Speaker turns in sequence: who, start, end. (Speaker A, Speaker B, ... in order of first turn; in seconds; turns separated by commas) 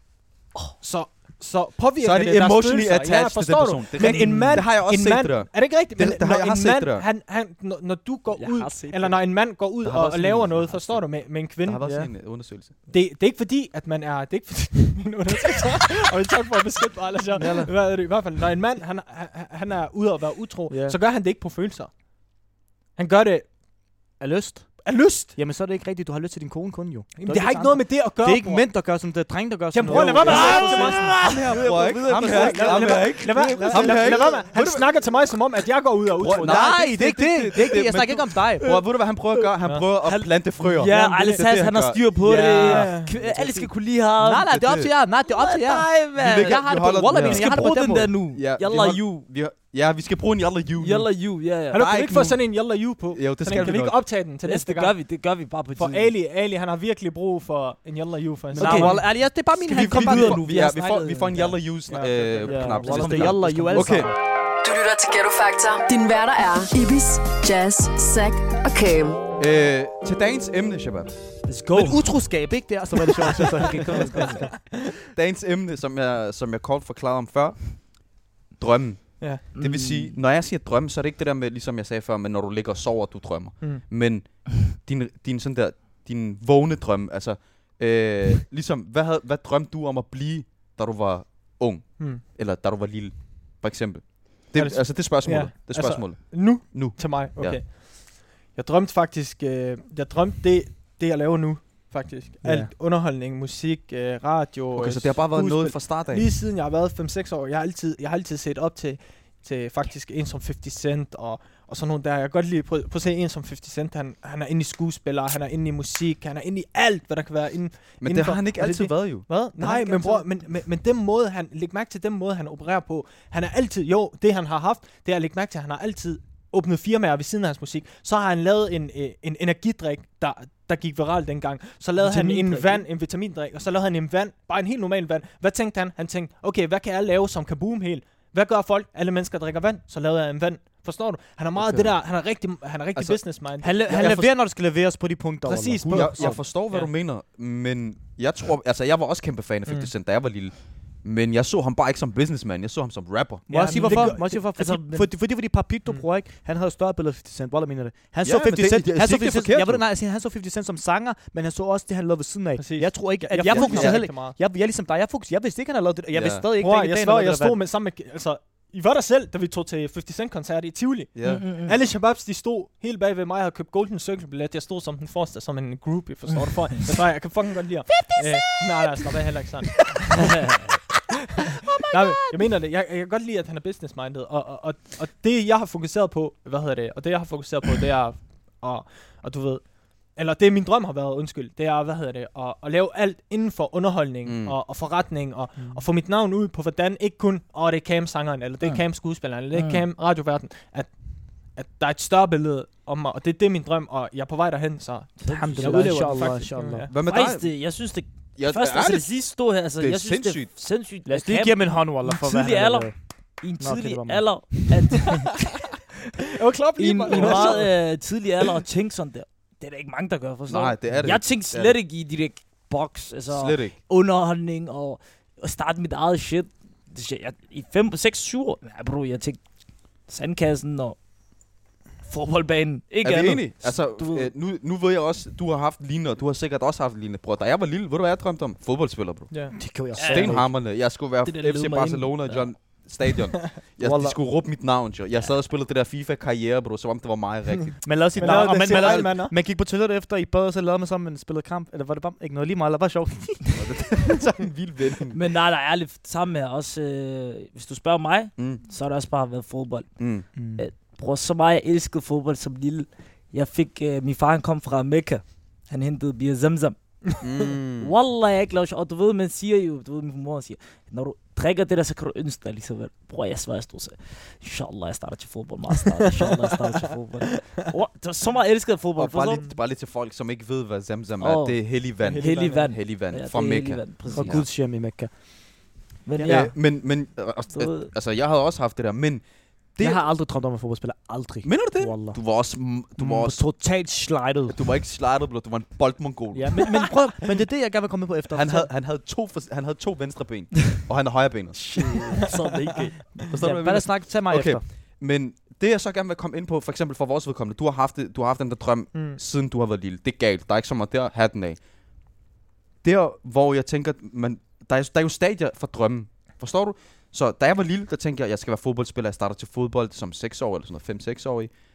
Speaker A: 0.8-11.9, Speaker B: 2.0-7.0, Speaker C: 4.0-4.6, Speaker C: 8.3-9.2, Speaker B: 9.8-12.7, Speaker D: 11.8-12.1, Speaker A: 12.9-21.9, Speaker B: 17.4-17.7, Speaker D: 20.7-21.0, Speaker A: 22.9-23.5, Speaker D: 24.2-34.5, Speaker A: 24.8-25.3, Speaker A: 27.2-28.7, Speaker A: 29.7-31.3, Speaker C: 29.9-33.7, Speaker B: 29.9-34.9, Speaker A: 32.2-36.8, Speaker B: 36.2-42.0, Speaker D: 36.4-38.7, Speaker C: 38.6-44.5, Speaker A: 40.9-41.4, Speaker A: 42.2-43.2, Speaker D: 42.2-43.6, Speaker D: 44.2-48.1, Speaker B: 44.4-44.9, Speaker C: 45.3-49.0, Speaker B: 46.2-47.7, Speaker B: 48.3-51.1, Speaker C: 50.8-51.8, Speaker A: 51.7-55.0, Speaker B: 51.7-54.0, Speaker C: 54.4-56.1, Speaker A: 55.8-59.0, Speaker D: 58.5-60.5, Speaker C: 58.5-58.9, Speaker B: 59.6-64.1, Speaker C: 59.8-61.5, Speaker A: 61.9-62.6, Speaker D: 62.5-64.1, Speaker C: 62.6-64.0, Speaker E: 64.6-69.2, Speaker B: 69.4-71.1, Speaker C: 71.5-72.3, Speaker D: 71.7-74.5, Speaker C: 73.4-74.5, Speaker B: 75.1-97.6, Speaker C: 79.5-80.2, Speaker A: 94.5-144.3, Speaker D: 102.4-102.7, Speaker B: 104.7-106.2, Speaker B: 118.0-119.3, Speaker D: 119.6-120.2, Speaker C: 132.0-132.8, Speaker B: 141.6-142.0, Speaker B: 142.9-143.2, Speaker D: 143.6-146.4, Speaker B: 144.0-144.3, Speaker A: 145.4-146.9, Speaker B: 145.9-153.4, Speaker D: 153.5-167.6, Speaker A: 153.5-154.8, Speaker C: 153.7-155.0, Speaker B: 158.2-159.8, Speaker A: 162.6-164.4, Speaker B: 163.4-164.1, Speaker B: 166.1-166.5, Speaker A: 166.6-180.3, Speaker B: 171.1-171.5, Speaker C: 171.2-171.7, Speaker C: 180.4-180.7, Speaker A: 181.8-206.9, Speaker D: 181.9-182.3, Speaker B: 194.2-194.6, Speaker C: 199.5-199.8, Speaker C: 205.2-206.3, Speaker D: 205.3-206.9, Speaker B: 206.9-207.5, Speaker C: 207.0-215.3, Speaker B: 208.3-209.1, Speaker B: 209.8-210.5, Speaker D: 211.1-212.9, Speaker D: 213.6-214.6, Speaker A: 216.3-217.7, Speaker C: 216.8-229.4, Speaker D: 217.1-217.7, Speaker B: 220.5-221.8, Speaker B: 223.3-223.7, Speaker C: 230.1-231.0, Speaker C: 232.1-234.3, Speaker B: 233.0-239.3, Speaker A: 239.3-239.6, Speaker D: 239.5-240.5, Speaker B: 239.9-249.1, Speaker C: 239.9-240.6, Speaker C: 241.2-242.8, Speaker D: 243.8-244.2, Speaker D: 247.8-254.1, Speaker A: 248.2-249.3, Speaker B: 253.6-255.2, Speaker C: 255.1-279.4, Speaker B: 258.4-258.6, Speaker B: 260.0-260.2, Speaker D: 260.4-260.6, Speaker B: 267.2-267.9, Speaker B: 279.0-284.5, Speaker C: 281.2-284.4, Speaker A: 282.0-282.7, Speaker D: 284.1-285.7, Speaker C: 286.0-286.9, Speaker B: 286.2-290.0, Speaker C: 287.5-287.9, Speaker D: 289.8-292.4, Speaker B: 291.4-293.4, Speaker D: 293.0-294.6, Speaker B: 294.5-296.9, Speaker D: 296.3-298.7, Speaker B: 298.3-302.3, Speaker C: 301.6-303.1, Speaker B: 303.3-311.6, Speaker D: 303.3-304.6, Speaker A: 308.9-309.2, Speaker B: 312.8-321.5